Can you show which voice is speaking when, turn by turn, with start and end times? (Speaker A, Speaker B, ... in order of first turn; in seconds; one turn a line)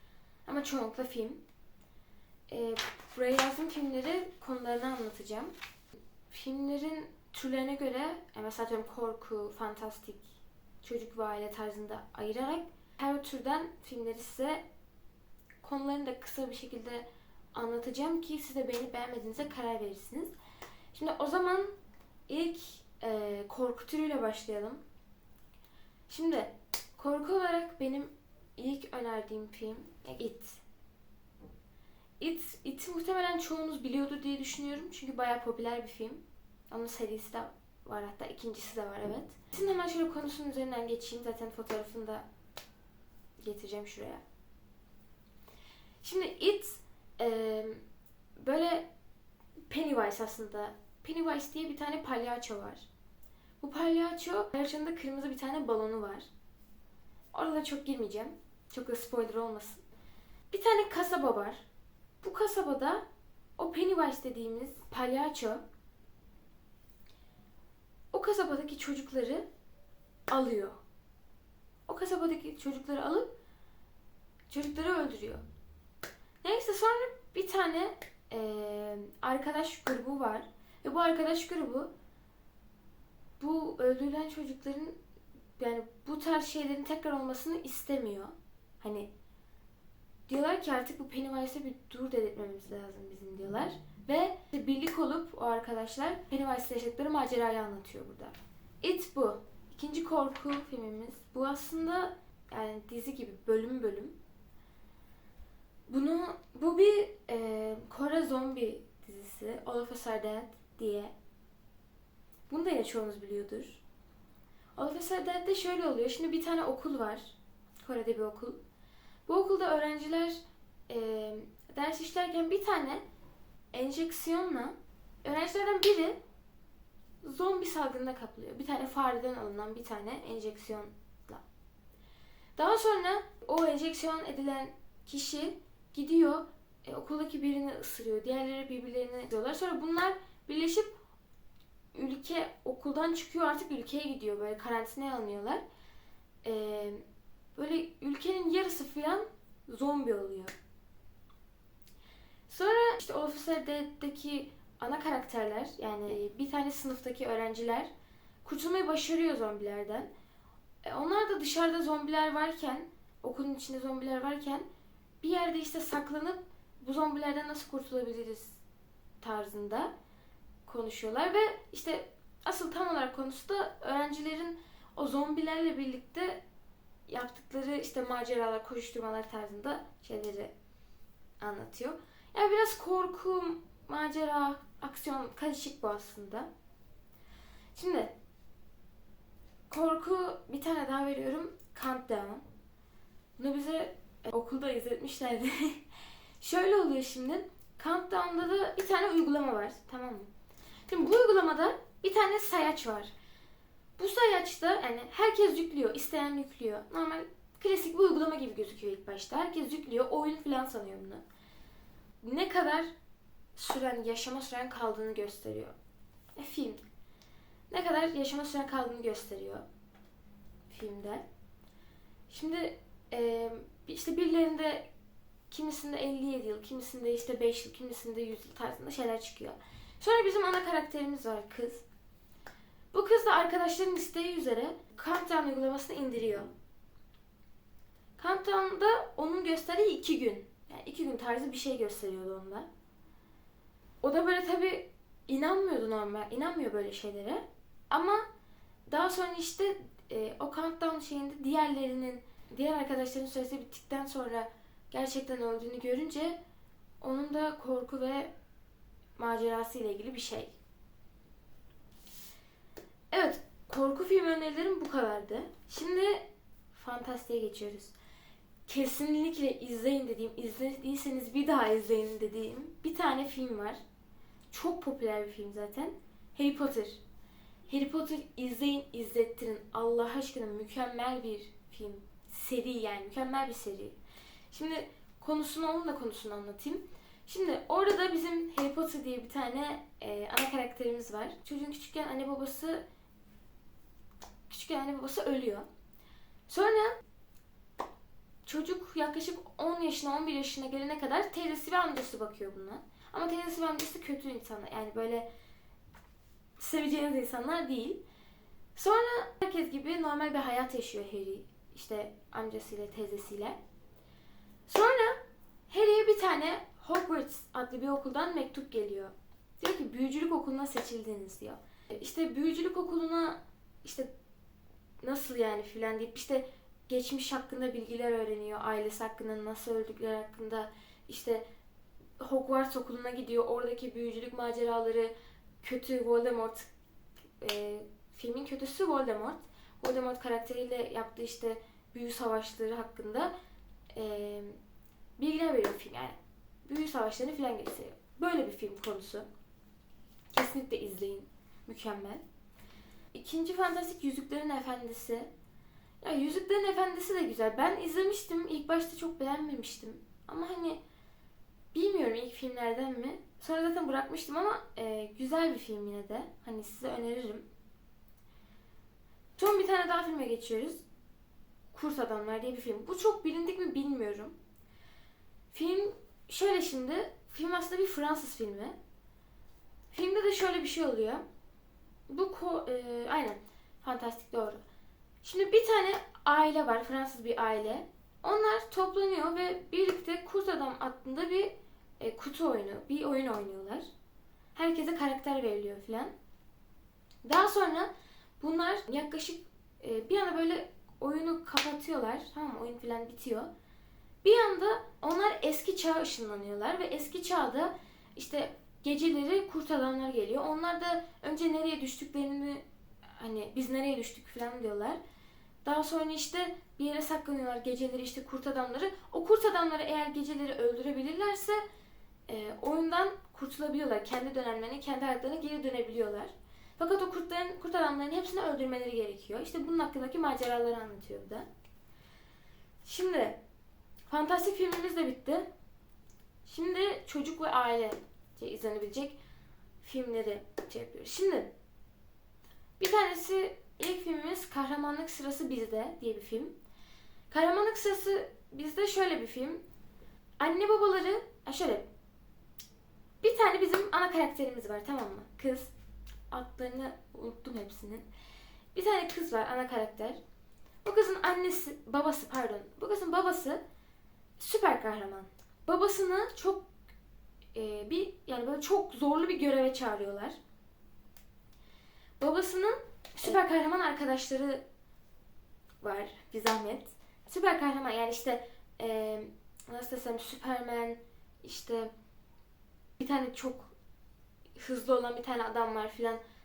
Speaker A: 0.5-1.4
Speaker A: 2.5-5.5
Speaker A: 6.3-10.3
Speaker A: 10.8-14.6
Speaker A: 15.6-20.3
Speaker A: 20.9-21.7
Speaker A: 22.3-24.8
Speaker A: 26.1-30.6
Speaker A: 32.2-42.2
Speaker A: 43.4-44.2
Speaker A: 46.0-47.8
Speaker A: 48.4-48.9
Speaker A: 49.7-52.9
Speaker A: 53.6-56.3
Speaker A: 57.3-59.8
Speaker A: 60.5-61.6
Speaker A: 62.2-63.0
Speaker A: 63.6-65.6
Speaker A: 68.1-69.5
Speaker A: 70.3-70.8
Speaker A: 71.9-73.3
Speaker A: 74.5-75.4
Speaker A: 76.4-81.9
Speaker A: 83.4-85.0
Speaker A: 85.6-89.1
Speaker A: 90.3-104.2
Speaker A: 105.9-111.1
Speaker A: 112.5-113.8
Speaker A: 114.8-118.6
Speaker A: 119.2-123.0
Speaker A: 123.7-126.2
Speaker A: 127.2-131.4
Speaker A: 132.6-140.9
Speaker A: 141.9-145.6
Speaker A: 146.4-147.0
Speaker A: 147.6-150.5
Speaker A: 152.5-157.9
Speaker A: 158.4-160.1
Speaker A: 160.8-164.7
Speaker A: 165.2-168.6
Speaker A: 169.2-169.9
Speaker A: 170.7-176.4
Speaker A: 177.1-180.5
Speaker A: 181.4-186.5
Speaker A: 187.7-188.1
Speaker A: 189.7-192.4
Speaker A: 193.4-195.8
Speaker A: 196.4-200.3
Speaker A: 200.9-203.1
Speaker A: 204.0-211.2
Speaker A: 212.2-212.9
Speaker A: 213.6-215.7
Speaker A: 216.3-216.8
Speaker A: 217.7-219.6
Speaker A: 220.7-221.2
Speaker A: 222.3-224.9
Speaker A: 225.5-231.8
Speaker A: 232.9-236.5
Speaker A: 238.2-242.7
Speaker A: 244.0-248.2
Speaker A: 248.9-256.4
Speaker A: 257.0-258.3
Speaker A: 259.2-260.5
Speaker A: 263.1-267.9
Speaker A: 268.7-273.8
Speaker A: 274.5-277.0
Speaker A: 277.7-284.0
Speaker A: 284.5-292.8
Speaker A: 294.5-295.6
Speaker A: 296.5-297.0
Speaker A: 298.4-305.3
Speaker A: 306.6-308.0
Speaker A: 308.7-313.6
Speaker A: 314.7-324.1
Speaker A: 325.0-331.4
Speaker A: 332.2-336.7
Speaker A: 337.4-343.3
Speaker A: 343.9-344.6
Speaker A: 345.2-349.2
Speaker A: 350.3-352.2
Speaker A: 353.1-355.3
Speaker A: 356.0-360.8
Speaker A: 361.7-367.4
Speaker A: 369.4-370.8
Speaker A: 371.7-374.3
Speaker A: 375.5-378.8
Speaker A: 379.9-381.2
Speaker A: 382.1-384.6
Speaker A: 385.2-393.9
Speaker A: 394.5-396.1
Speaker A: 397.2-403.5
Speaker A: 404.2-412.6
Speaker A: 413.2-415.0
Speaker A: 415.6-421.6
Speaker A: 422.3-431.5
Speaker A: 432.8-433.4
Speaker A: 434.1-435.5
Speaker A: 436.4-439.2
Speaker A: 439.8-441.5
Speaker A: 442.8-446.5
Speaker A: 447.3-449.6
Speaker A: 450.4-451.9
Speaker A: 453.2-455.7
Speaker A: 456.3-458.1
Speaker A: 458.7-460.2
Speaker A: 460.8-463.6
Speaker A: 464.4-466.7
Speaker A: 467.5-470.4
Speaker A: 472.2-474.6
Speaker A: 475.8-481.9
Speaker A: 483.0-483.7
Speaker A: 484.6-486.2